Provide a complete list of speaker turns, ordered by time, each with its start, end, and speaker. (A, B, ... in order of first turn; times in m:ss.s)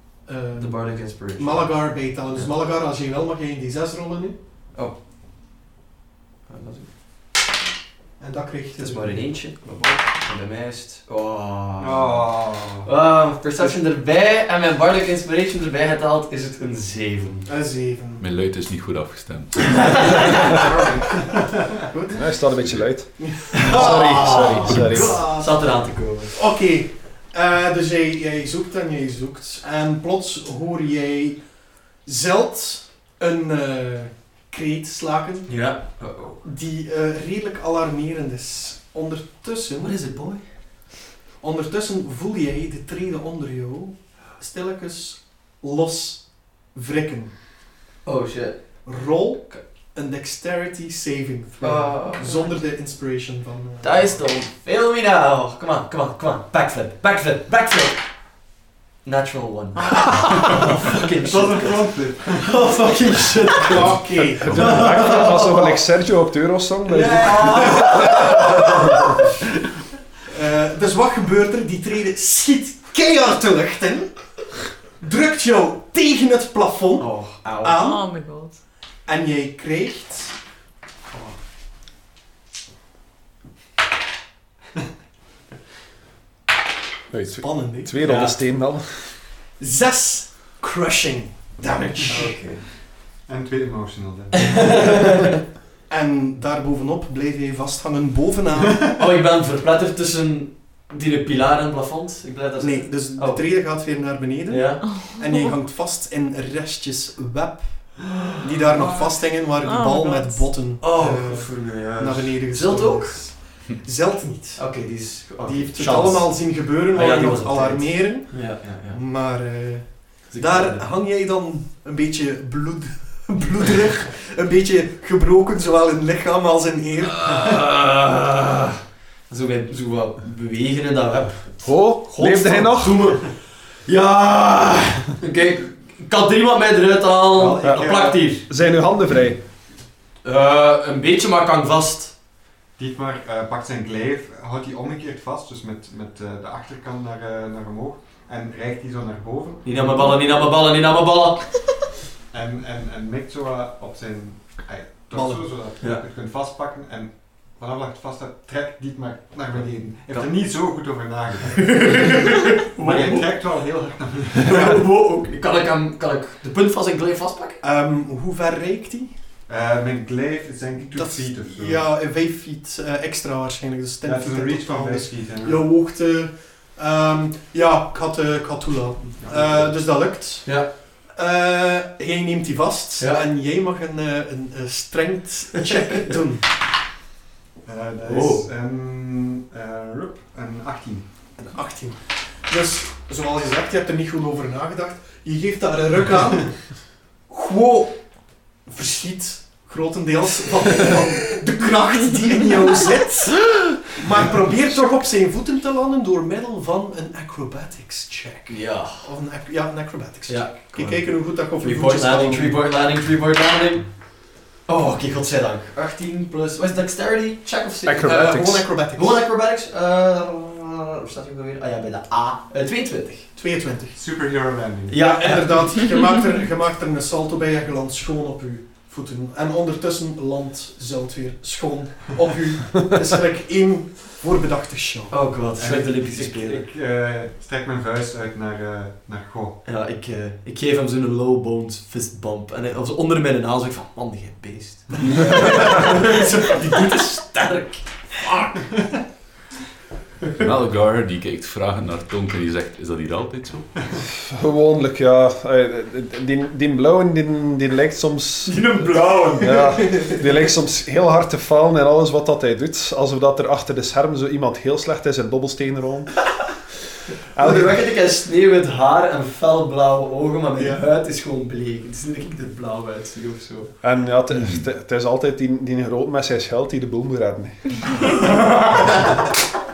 0:00.2-0:04.4 A
0:00.6-0:02.5 B
0:06.5-0:06.9 B
0:08.2-0:09.2 A
0:08.8-0:12.3 B
0:11.8-0:12.9 C
0:12.8-0:17.5 B
0:17.4-0:18.2 A
0:18.2-0:20.1 D
0:19.6-0:20.6 B
0:20.5-0:21.7 C
0:21.9-0:22.3 A
0:22.1-0:25.2 E
0:23.2-0:25.7 A
0:23.5-0:26.4 B
0:26.3-0:31.4 A
0:32.0-0:35.5 A
0:35.5-0:36.4 B
0:36.4-0:39.9 A
0:39.8-0:40.5 B
0:41.4-0:47.3 A
0:48.0-0:48.8 B
0:48.8-0:54.2 A
0:51.6-0:52.5 B
0:53.8-0:58.0 B
0:59.0-1:05.7 B
1:01.2-1:02.8 C
1:03.6-1:05.8 A
1:04.4-1:08.3 E
1:06.9-1:08.6 B
1:07.0-1:08.0 C
1:07.4-1:08.5 A
1:10.3-1:14.2 A
1:15.0-1:18.1 A
1:17.0-1:17.8 B
1:17.7-1:18.6 F
1:19.0-1:20.3 A
1:27.1-1:29.2 E
1:27.3-1:28.2 A
1:28.0-1:28.3 B
1:29.6-1:32.3 A
1:32.0-1:32.6 B
1:32.1-1:34.6 C
1:34.3-1:35.3 B
1:35.9-1:38.8 A
1:39.0-1:43.4 B
1:42.6-1:54.9 A
1:44.5-1:44.8 B
1:44.8-1:45.5 F
1:49.4-1:50.7 F
1:50.8-1:53.3 B
1:54.6-1:59.0 B
1:55.4-2:07.3 A
2:00.3-2:00.8 B
2:07.0-2:18.5 B
2:11.6-2:13.0 E
2:17.3-2:18.2 C
2:17.6-2:17.9 E
2:18.4-2:19.4 E
2:20.2-2:22.2 B
2:22.8-2:29.7 C
2:29.6-2:31.5 B
2:32.3-2:42.0 C
2:35.1-2:35.5 A
2:41.6-2:43.4 B
2:42.7-2:44.6 C
2:44.4-2:47.6 B
2:47.6-2:49.1 A
2:49.5-2:51.8 C
2:50.9-3:00.6 A
2:54.0-2:55.6 C
2:59.2-2:59.7 C
3:00.4-3:00.7 B
3:01.1-3:06.4 A
3:03.0-3:03.2 B
3:05.7-3:06.0 B
3:07.6-3:11.0 C
3:08.0-3:08.4 B
3:11.4-3:18.1 A
3:18.6-3:32.6 A
3:28.5-3:29.1 B
3:30.3-3:43.3 B
3:37.8-3:38.6 E
3:38.0-3:39.2 A
3:43.3-3:44.0 A
3:43.9-3:45.0 C
3:44.9-3:45.7 B
3:44.9-3:55.2 A
3:55.1-3:56.6 B
3:55.6-3:59.6 C
3:59.6-4:08.4 B
4:10.4-4:13.7 D
4:14.1-4:18.6 E
4:18.4-4:20.2 B
4:19.4-4:26.2 E
4:27.3-4:27.8 E
4:27.3-4:33.7 B
4:30.6-4:30.8 A
4:33.8-4:38.1 E
4:34.3-4:34.6 D